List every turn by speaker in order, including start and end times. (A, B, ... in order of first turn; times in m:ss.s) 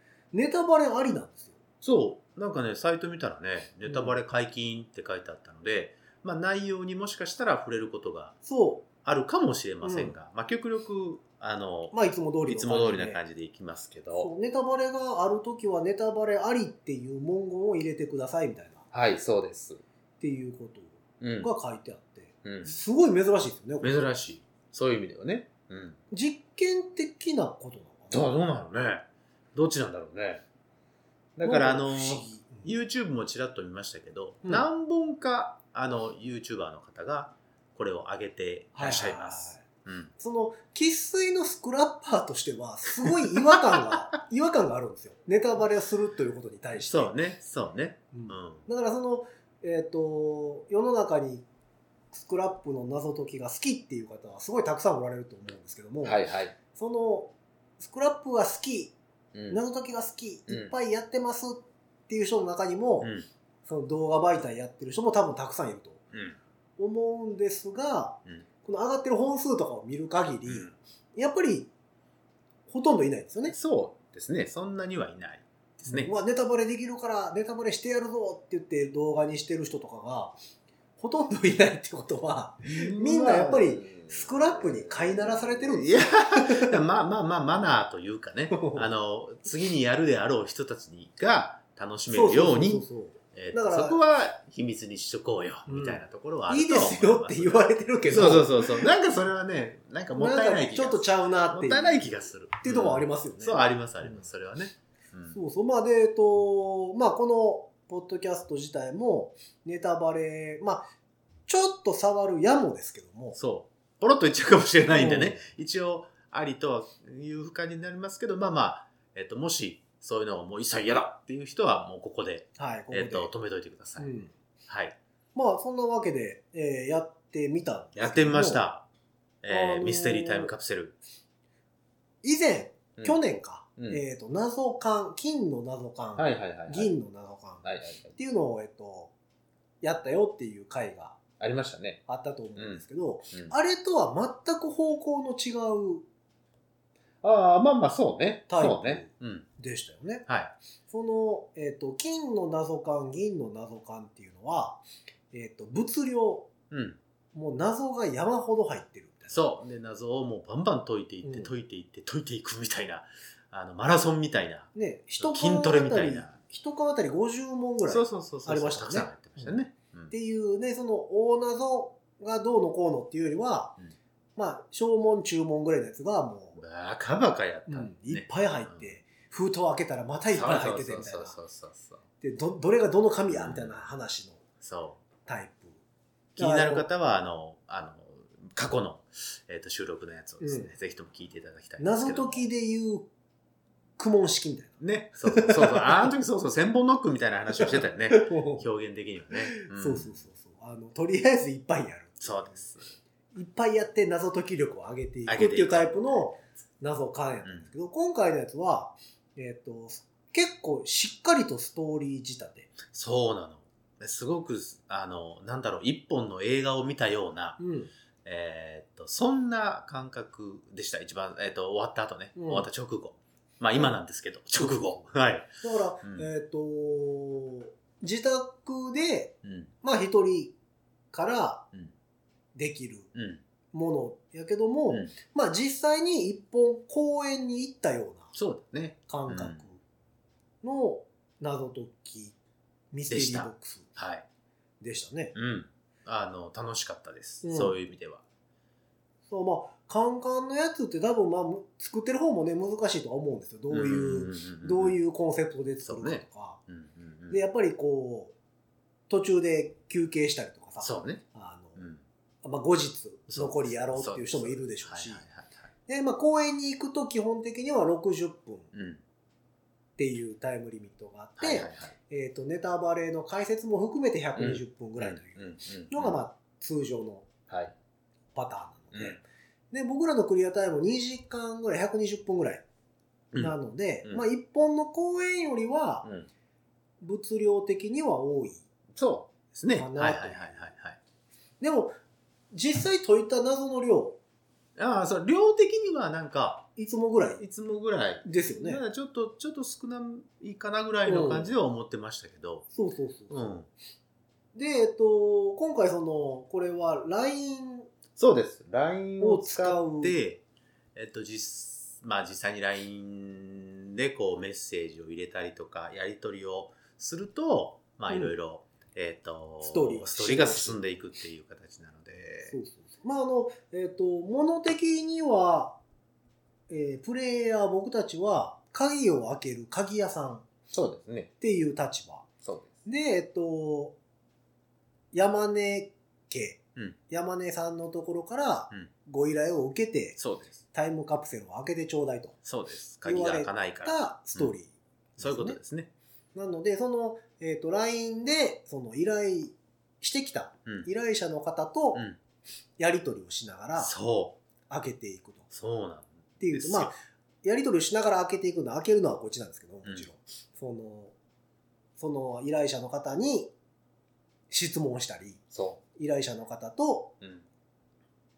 0:00.3-0:01.6 A
0:01.8-0:08.4 B
0:03.8-0:04.2 A
0:08.4-0:08.9 A
0:09.0-0:12.0 B
0:09.8-0:10.1 A
0:11.9-0:13.2 A
0:12.5-0:14.3 B
0:14.2-0:18.8 A
0:18.9-0:19.8 B
0:20.2-0:24.0 A
0:21.2-0:21.5 B
0:22.4-0:22.7 B
0:23.8-0:26.0 B
0:26.1-0:28.3 A
0:28.1-0:30.4 B
0:31.4-0:40.1 B
0:31.4-0:32.7 A
0:38.7-0:39.6 A
0:40.2-0:47.1 A
0:43.0-0:44.0 B
0:46.7-0:48.6 B
0:48.1-0:51.4 A
0:52.1-0:56.2 A
0:56.0-0:56.6 B
0:56.7-0:58.9 A
0:59.3-0:59.6 B
0:59.5-1:03.1 A
1:00.5-1:00.7 B
1:03.0-1:03.3 B
1:03.6-1:06.0 A
1:06.8-1:11.7 A
1:10.4-1:10.8 B
1:12.7-1:13.6 A
1:13.5-1:16.1 B
1:15.9-1:20.4 A
1:21.0-1:26.8 A
1:22.6-1:45.4 B
1:28.5-1:28.9 A
1:32.1-1:34.0 A
1:35.7-1:38.9 A
1:40.2-1:44.3 A
1:45.3-1:50.9 A
1:51.5-1:53.4 A
1:53.3-2:04.1 B
1:54.9-1:55.5 A
2:02.6-2:03.3 A
2:04.0-2:04.3 A
2:04.7-2:05.0 B
2:05.3-2:08.6 A
2:07.9-2:08.8 B
2:09.4-2:11.0 B
2:09.5-2:10.5 A
2:12.2-2:19.1 A
2:16.2-2:16.9 B
2:17.6-2:18.2 B
2:19.8-2:21.2 A
2:21.4-2:22.0 B
2:22.1-2:26.0 A
2:22.6-2:23.5 B
2:27.2-2:29.5 B
2:28.5-2:30.2 A
2:30.3-2:30.5 B
2:30.9-2:36.5 A
2:36.7-2:37.0 B
2:37.3-2:39.4 A
2:39.3-2:46.4 B
2:41.2-2:41.5 A
2:44.7-2:53.8 A
2:47.8-2:50.1 B
2:54.4-2:56.6 A
2:56.6-2:58.9 B
2:57.7-3:01.3 A
3:00.3-3:02.0 B
3:02.2-3:04.4 A
3:03.3-3:03.8 B
3:04.6-3:05.0 B
3:05.2-3:05.8 A
3:06.3-3:12.4 B
3:06.4-3:06.9 A
3:10.4-3:10.7 A
3:11.8-3:13.0 A
3:14.0-3:16.0 A
3:14.8-3:20.2 B
3:17.5-3:18.6 A
3:19.5-3:22.6 A
3:22.2-3:23.0 B
3:23.3-3:32.8 A
3:25.3-3:26.3 B
3:27.4-3:27.7 B
3:32.8-3:37.6 B
3:37.6-3:37.9 A
3:38.2-3:46.3 B
3:42.4-3:42.7 A
3:45.6-3:50.5 A
3:49.4-3:49.7 B
3:51.1-3:51.7 A
3:52.5-3:53.1 A
3:53.1-3:53.4 B
3:53.7-3:58.3 A
3:58.3-3:59.6 B
3:59.1-3:59.8 A
4:00.6-4:02.4 A
4:02.9-4:03.9 A
4:03.1-4:04.2 B
4:04.8-4:05.3 A
4:05.3-4:08.2 B
4:07.4-4:07.7 A
4:09.3-4:16.6 A
4:13.7-4:15.0 B
4:15.8-4:17.4 B
4:17.3-4:18.3 A
4:19.1-4:21.8 A
4:20.8-4:21.2 B
4:21.8-4:22.0 B
4:22.4-4:25.2 A
4:23.3-4:25.7 B
4:25.9-4:28.7 A
4:28.7-4:29.0 B
4:30.0-4:37.3 A
4:31.4-4:31.9 B
4:34.3-4:36.2 B
4:37.5-4:37.7 B
4:38.3-4:42.6 A
4:38.9-4:39.2 B
4:43.4-4:46.1 A
4:47.0-4:48.6 A
4:48.9-4:51.0 B
4:49.7-4:50.6 A
4:51.6-4:52.0 A
4:52.5-4:54.2 A
4:54.8-4:56.7 B
4:56.8-4:57.4 A
4:57.4-5:02.7 B
4:58.2-4:58.8 A
5:01.0-5:01.5 A
5:02.7-5:03.6 A
5:03.3-5:03.7 B
5:04.5-5:07.9 A
5:08.2-5:10.4 B
5:09.2-5:10.2 A
5:10.9-5:22.6 B
5:18.1-5:18.3 A
5:19.6-5:20.8 A
5:22.5-5:25.8 A
5:26.7-5:30.4 A
5:30.7-5:31.3 B
5:31.4-5:32.3 A
5:32.4-5:32.8 B
5:32.8-5:34.0 A
5:35.1-5:40.2 A
5:40.2-5:40.6 B
5:40.7-5:42.4 A
5:42.4-5:44.5 B
5:43.0-5:45.6 A
5:45.2-5:45.9 B
5:46.3-5:52.0 A
5:52.8-5:53.9 A
5:53.8-5:54.4 B
5:54.7-5:55.5 A
5:55.5-5:56.9 B
5:56.4-6:01.1 A
6:02.0-6:03.5 A
6:04.5-6:05.4 A
6:05.5-6:05.8 B
6:05.9-6:07.1 A
6:07.2-6:07.4 B